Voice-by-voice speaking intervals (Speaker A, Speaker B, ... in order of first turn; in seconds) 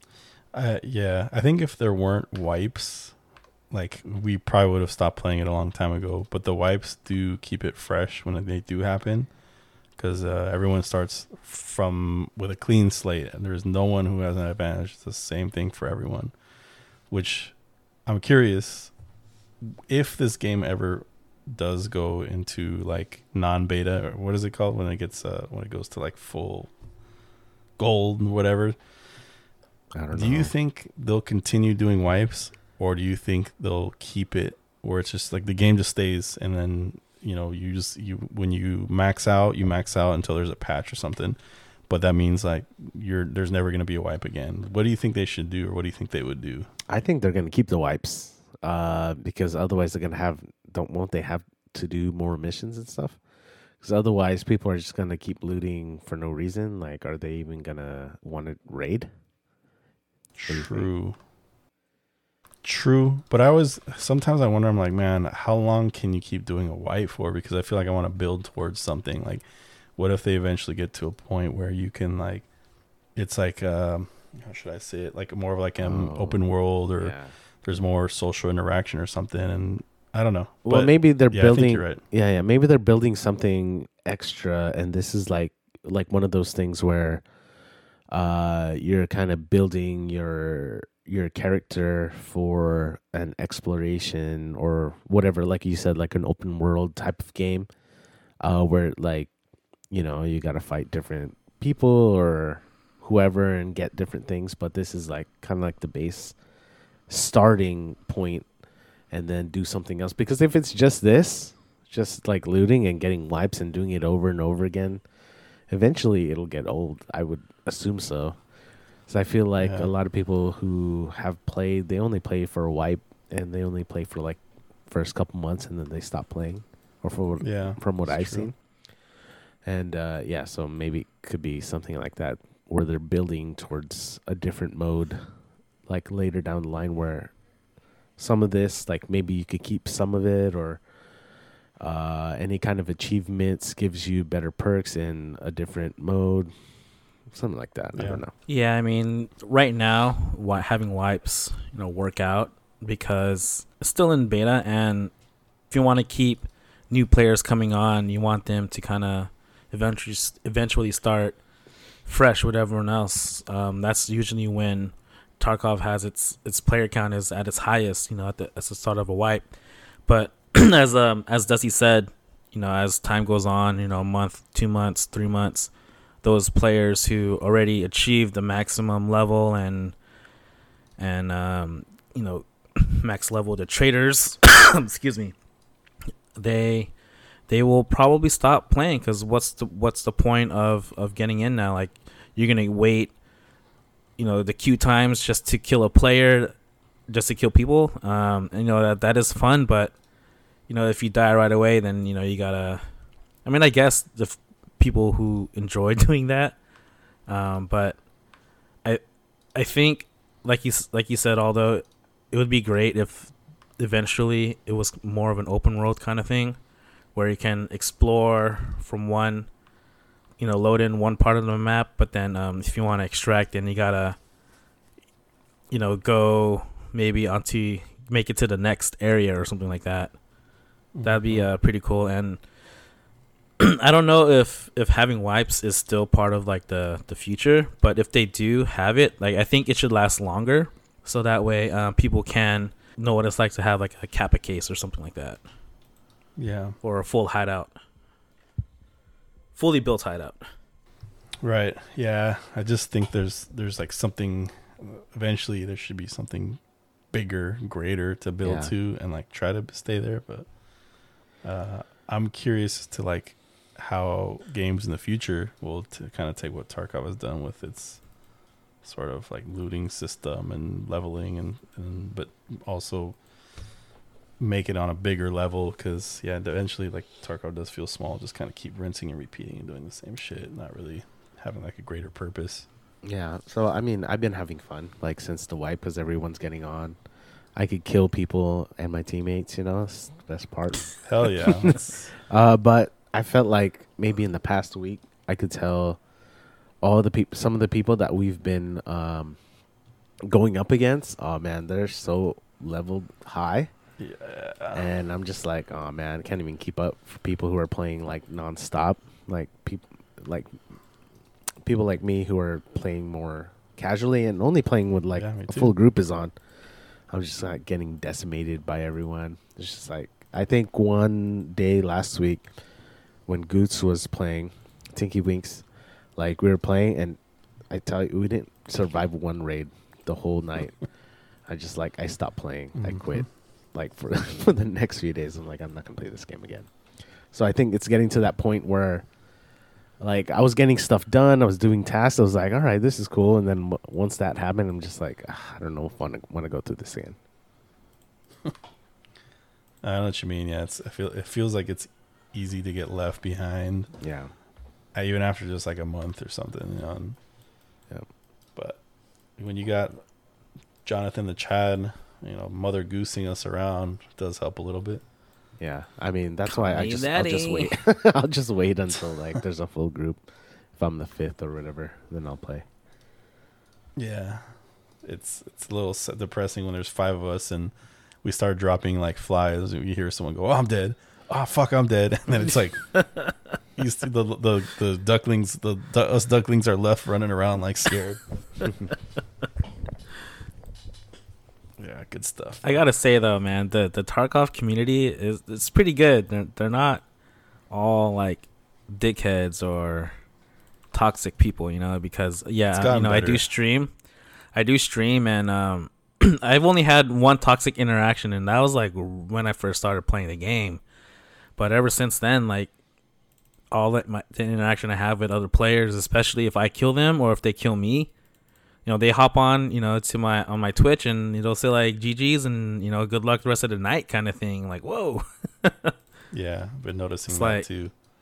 Speaker A: 0.5-3.1, 3.7-9.3, 10.0-16.3, 17.1-17.6, 18.1-18.9, 19.6-26.7, 27.8-28.8, 30.1-46.7, 60.4-61.2, 62.6-72.5, 73.2-82.0, 119.6-119.9, 127.4-128.5, 147.9-148.2, 230.9-231.5, 246.4-246.8, 251.4-256.6, 257.1-260.5, 261.4-268.0, 268.8-273.2, 274.4-282.7, 291.0-292.1, 304.0-304.9, 315.2-315.7, 332.8-333.3, 349.8-353.9, 354.9-357.2, 358.6-358.8, 359.4-360.0, 360.9-365.0, 374.0-383.2, 383.8-388.2, 391.8-392.8, 402.7-403.4, 426.3-427.9
Speaker B: 29.9-30.5, 46.9-53.2, 53.8-59.1, 60.5-60.9, 75.8-76.4, 77.0-77.3, 80.7-87.2, 88.1-97.7, 98.4-99.3, 99.9-106.4, 107.1-108.5, 109.1-115.0, 115.7-118.4, 119.1-128.6, 129.6-135.3, 135.9-137.4, 138.2-140.9, 141.8-146.5, 147.3-148.3, 258.4-258.7, 283.0-287.0, 287.6-296.0, 296.8-299.4, 300.2-303.7, 304.7-310.5, 311.6-316.3, 317.1-322.5, 323.3-327.2, 327.7-330.9, 331.5-336.7, 337.3-339.1, 340.0-347.2, 354.0-354.3, 365.6-372.7
Speaker C: 148.5-155.1, 155.7-161.4, 162.0-169.4, 170.1-175.7, 176.2-180.0, 181.0-185.3, 186.3-186.9, 187.5-193.1, 194.2-196.6, 197.1-199.9, 200.7-202.8, 203.4-206.6, 207.3-208.0, 209.5-216.6, 217.1-219.5, 220.4-224.2, 225.7-230.2, 231.0-232.4, 233.6-245.4, 246.8-247.8, 249.6-250.5, 366.5-367.8, 392.6-397.0, 397.7-400.2, 400.9-403.9, 404.5-410.8, 411.6-412.7, 413.7-418.1, 418.9-425.9, 427.3-427.7